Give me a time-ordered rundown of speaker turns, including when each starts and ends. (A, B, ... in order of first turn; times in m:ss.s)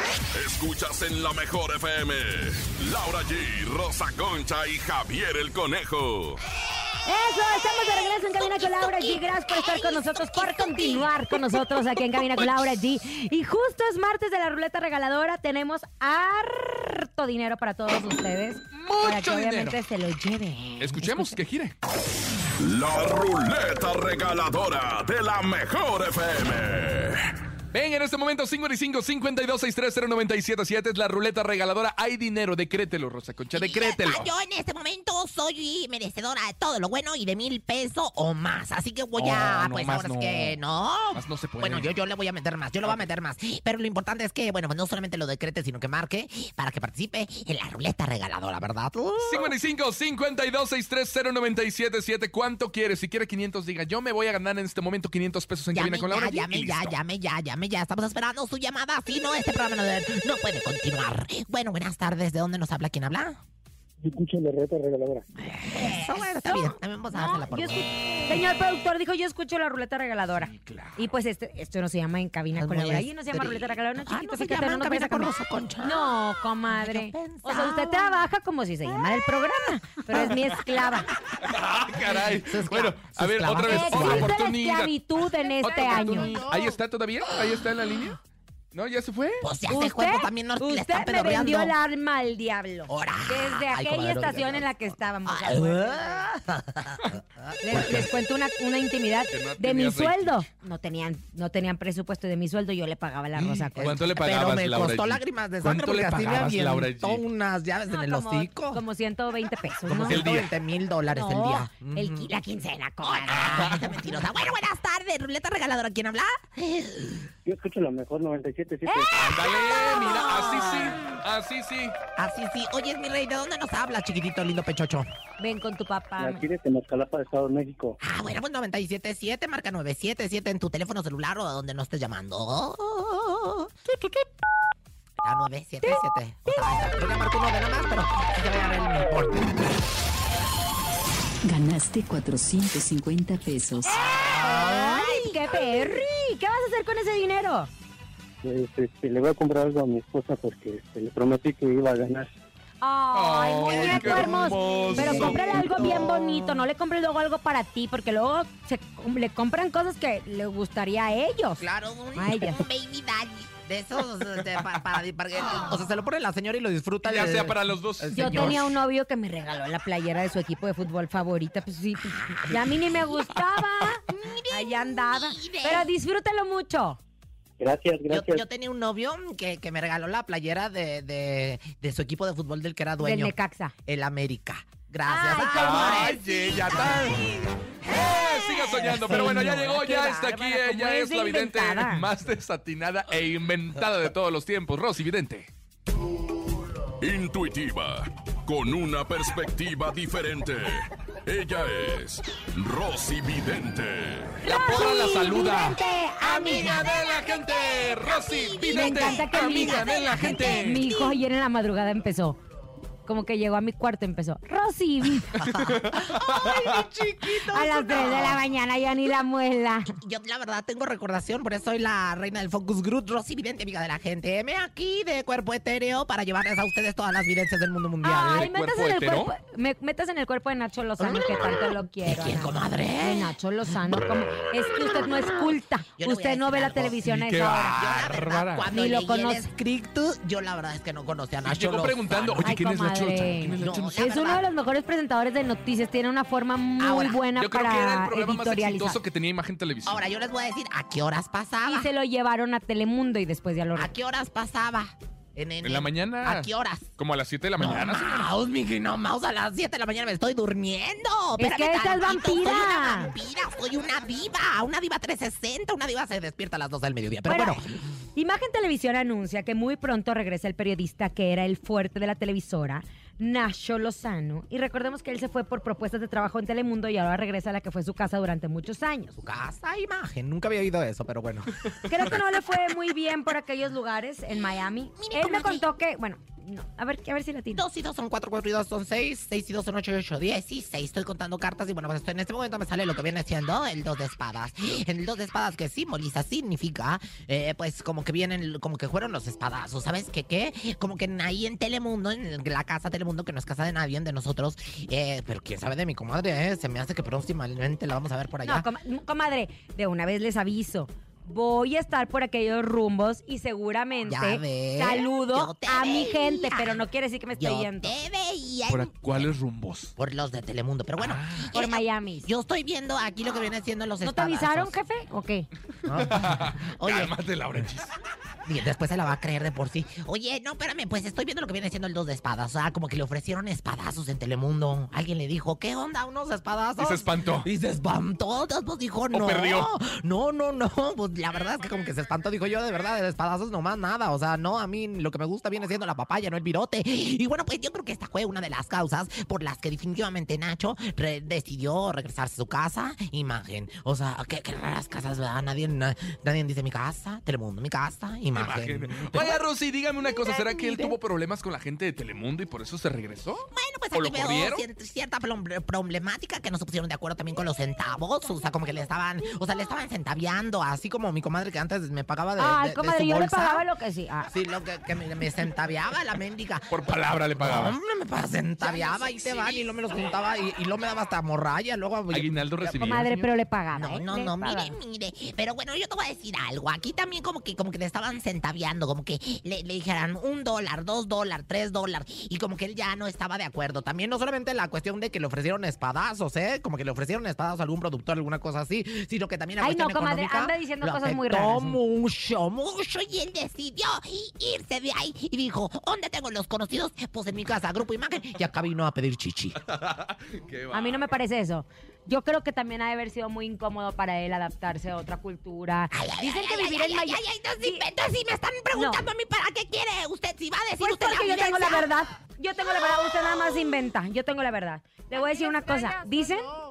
0:00.3-0:06.4 A
0:07.1-0:21.4 B
0:08.2-0:11.6 C
0:18.7-0:19.8 D
0:20.8-0:21.8 D
0:22.6-0:27.3 A
0:27.7-0:34.3 D
0:33.5-0:49.6 C
0:39.2-0:40.6 D
0:41.1-0:41.9 D
0:49.2-0:57.0 D
0:55.7-1:03.4 C
1:04.0-1:05.3 E
1:05.4-1:08.4 C
1:05.8-1:21.1 B
1:10.4-1:11.0 D
1:12.5-1:16.2 C
1:16.7-1:18.2 C
1:21.4-1:24.9 D
1:22.4-1:24.4 C
1:23.7-1:26.4 B
1:25.6-1:28.2 D
1:25.7-1:26.6 C
1:28.7-1:29.5 D
1:29.4-1:31.8 C
1:29.7-1:36.2 B
1:32.9-1:38.1 C
1:37.6-1:43.8 B
1:37.8-1:38.0 D
1:39.3-1:40.4 D
1:43.4-1:47.2 D
1:43.8-1:48.8 C
1:47.9-1:50.2 B
1:49.9-1:52.3 C
1:50.1-1:50.5 D
1:51.1-1:53.7 B
1:53.0-1:57.3 C
1:53.3-1:54.0 D
1:57.4-1:59.1 E
1:58.9-1:59.1 B
1:59.1-2:02.0 D
1:59.9-2:00.9 C
2:02.2-2:05.1 C
2:05.4-2:06.4 B
2:06.2-2:08.0 E
2:08.0-2:13.8 C
2:15.2-2:19.5 C
2:15.8-2:16.7 B
2:21.4-2:23.9 F
2:23.8-2:27.7 B
2:23.9-2:26.0 C
2:28.4-2:32.3 E
2:32.8-2:41.6 B
2:33.1-2:36.0 D
2:33.7-2:35.3 C
2:35.2-2:35.6 E
2:41.6-2:48.6 C
2:42.2-2:42.6 B
2:47.0-2:48.6 D
2:48.1-2:57.0 B
2:52.0-2:53.0 C
2:54.1-2:55.9 C
2:57.6-2:58.4 E
2:58.1-3:03.3 C
3:03.0-3:03.7 B
3:03.9-3:07.4 C
3:05.1-3:06.2 B
3:05.5-3:07.3 D
3:07.8-3:15.5 D
3:08.5-3:09.3 C
3:09.1-3:12.1 B
3:17.0-3:24.4 A
3:24.4-3:26.9 B
3:24.4-3:30.9 D
3:26.2-3:31.2 C
3:28.7-3:32.4 B
3:33.1-3:35.4 B
3:35.4-3:38.4 C
3:35.4-3:36.9 D
3:37.5-3:39.9 B
3:40.0-3:48.5 C
3:48.0-3:57.8 B
3:48.2-3:49.3 D
3:51.0-3:53.4 C
3:56.0-3:57.1 C
3:57.0-3:58.7 D
3:57.7-4:02.5 C
3:58.7-3:59.5 B
4:01.4-4:04.0 D
4:02.4-4:09.0 B
4:03.6-4:04.4 C
4:06.8-4:07.2 C
4:07.4-4:10.0 D
4:09.9-4:11.9 C
4:11.6-4:13.9 B
4:13.8-4:16.9 C
4:15.6-4:18.3 D
4:17.6-4:27.8 C
4:21.4-4:23.2 B
4:27.3-4:27.6 B
4:28.2-4:39.2 B
4:39.2-4:42.2 C
4:41.9-4:47.6 B
4:45.0-4:45.6 C
4:47.5-5:08.7 C
5:08.4-5:18.0 B
5:14.0-5:19.3 C
5:18.7-5:19.9 D
5:20.0-5:24.8 C
5:21.0-5:21.5 D
5:21.5-5:22.3 B
5:24.0-5:25.5 B
5:25.9-5:27.1 C
5:25.9-5:27.9 D
5:28.5-5:59.4 C
5:36.8-5:37.5 D
5:39.1-5:39.7 D
5:58.3-6:04.6 D
6:00.1-6:01.0 C
6:03.5-6:13.7 C
6:12.4-6:14.3 B
6:14.3-6:16.8 C
6:16.7-6:17.8 D
6:17.4-6:22.8 C
6:22.1-6:23.3 D
6:22.8-6:24.8 B
6:23.7-6:49.6 C
6:39.6-6:41.8 B
6:49.6-6:51.1 D
6:50.7-6:57.8 B
6:55.9-7:01.9 C
6:58.7-6:59.0 B
7:00.8-7:06.5 B